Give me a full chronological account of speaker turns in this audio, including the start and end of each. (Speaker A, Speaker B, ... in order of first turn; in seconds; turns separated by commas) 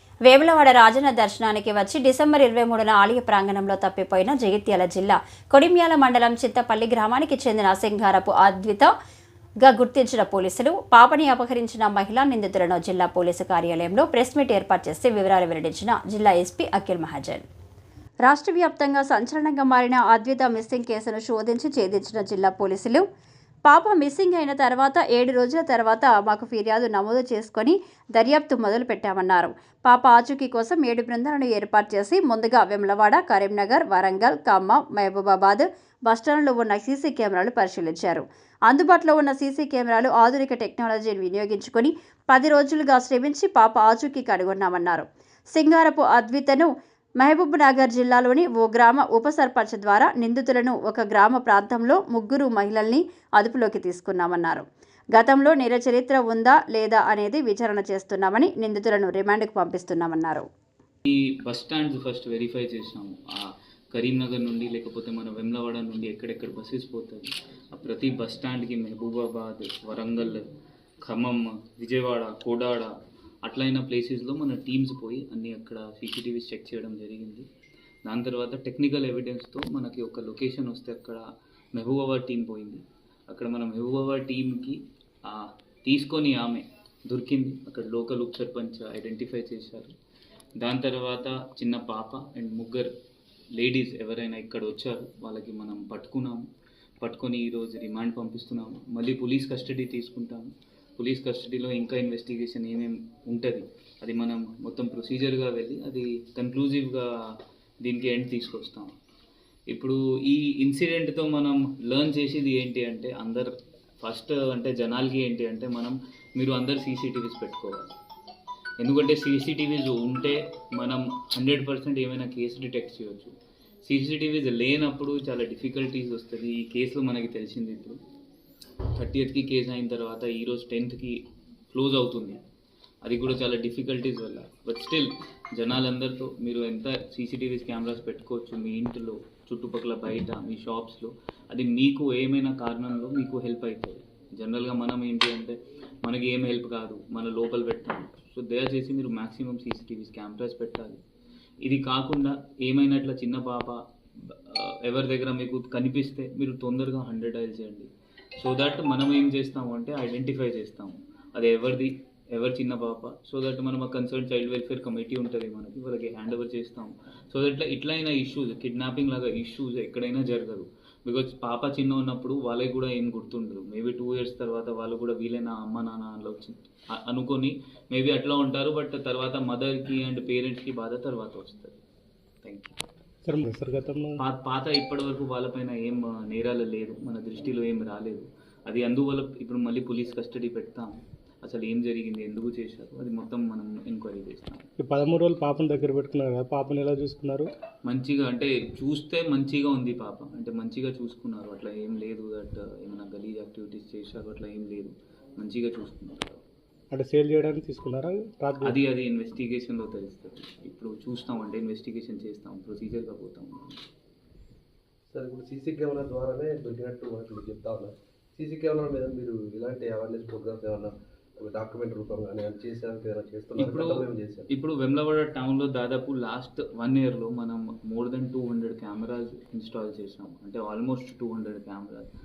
Speaker A: 0.2-8.9, Speaker A: 9.6-17.4, Speaker A: 18.2-23.0, Speaker A: 23.6-60.5, Speaker B: 61.0-63.3, Speaker B: 63.9-70.4, Speaker B: 71.0-72.9, Speaker B: 73.4-77.5, Speaker B: 78.0-81.2, Speaker B: 81.7-89.9, Speaker B: 90.6-92.9, Speaker B: 93.6-96.4, Speaker B: 97.0-107.0, Speaker B: 107.8-108.9, Speaker B: 109.7-113.5, Speaker B: 114.0-117.9, Speaker B: 118.8-123.3, Speaker B: 123.8-128.0, Speaker B: 128.9-131.2, Speaker B: 131.7-132.4, Speaker B: 133.0-151.0, Speaker B: 151.6-181.8, Speaker B: 182.4-182.8, Speaker C: 183.2-184.2, Speaker B: 184.2-194.7, Speaker C: 194.8-197.5, Speaker B: 197.8-206.4, Speaker C: 206.9-208.8, Speaker B: 208.6-213.8, Speaker D: 215.1-224.5, Speaker B: 223.6-232.1